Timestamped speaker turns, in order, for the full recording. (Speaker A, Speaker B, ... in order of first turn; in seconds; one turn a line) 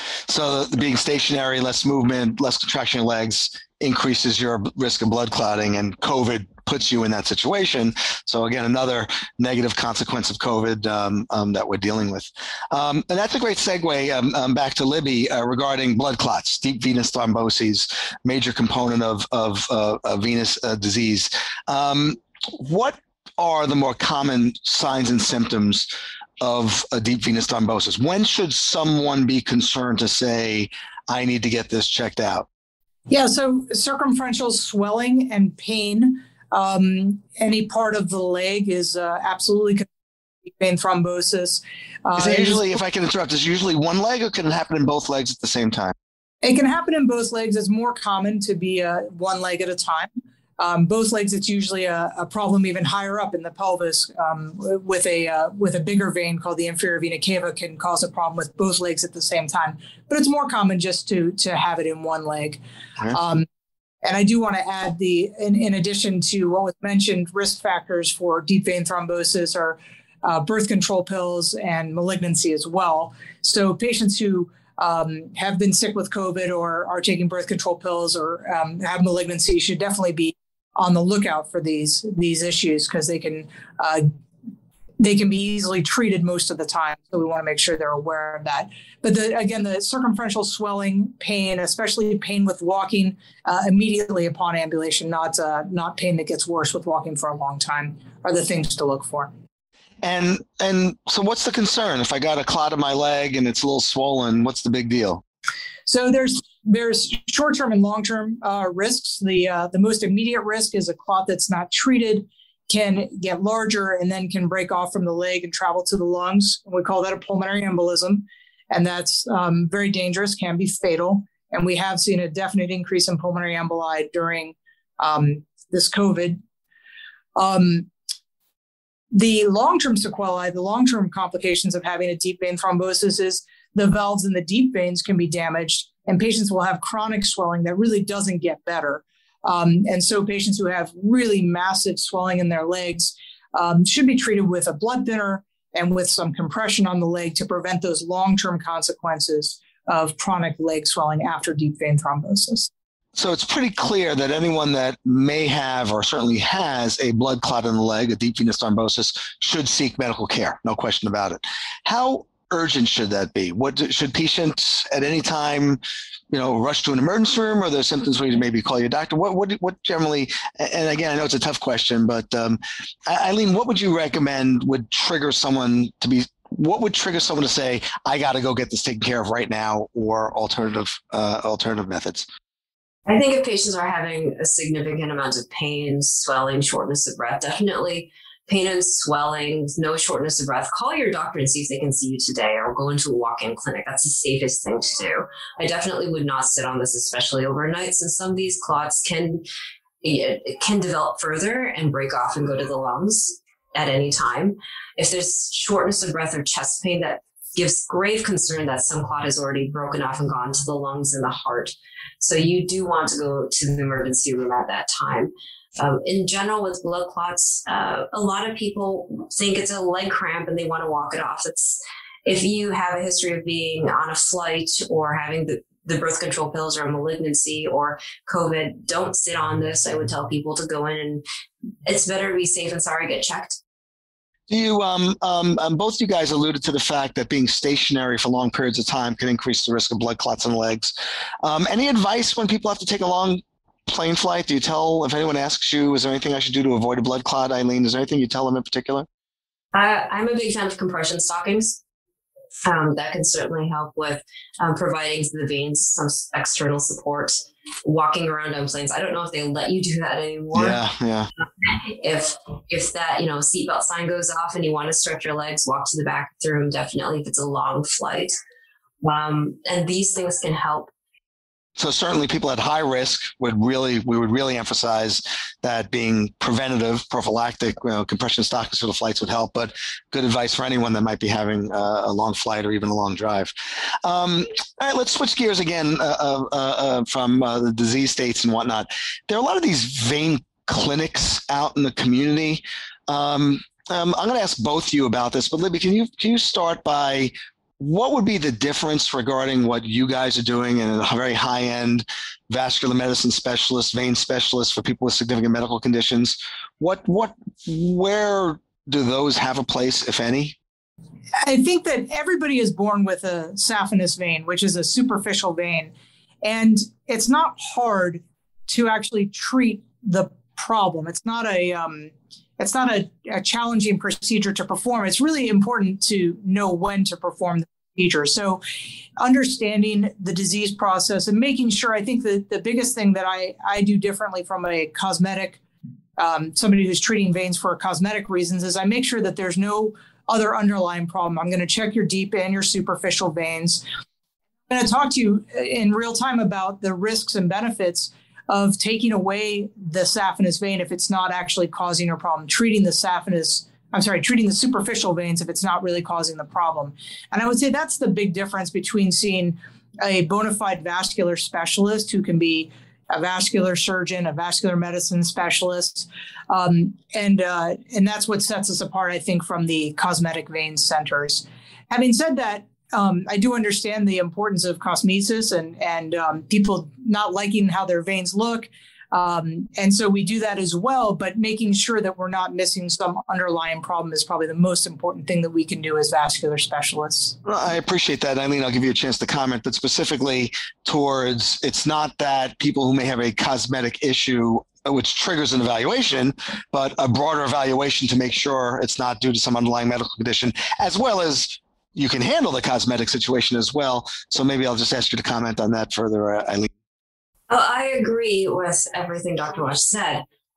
Speaker A: 0.3-25.9
Speaker A: 26.4-32.5
Speaker B: 33.1-39.9
Speaker B: 40.4-42.7
Speaker A: 42.2-45.9
Speaker B: 46.4-63.5
Speaker B: 64.0-84.0
Speaker B: 85.0-99.3
Speaker A: 100.0-105.2
Speaker B: 105.8-126.4
Speaker B: 127.3-127.9
Speaker B: 129.1-152.7
Speaker A: 153.1-182.3
Speaker C: 183.1-199.4
Speaker C: 200.0-231.2
Speaker C: 231.8-233.6
Speaker A: 234.5-249.1
Speaker C: 249.7-251.8
Speaker C: 252.6-260.8
Speaker A: 260.5-261.3
Speaker C: 261.6-268.3
Speaker C: 269.0-270.9
Speaker A: 271.8-283.5
Speaker A: 284.0-310.6
Speaker B: 311.4-328.6
Speaker B: 329.2-335.6
Speaker B: 336.2-343.8
Speaker B: 344.7-387.4
Speaker A: 387.4-406.7
Speaker C: 407.5-410.2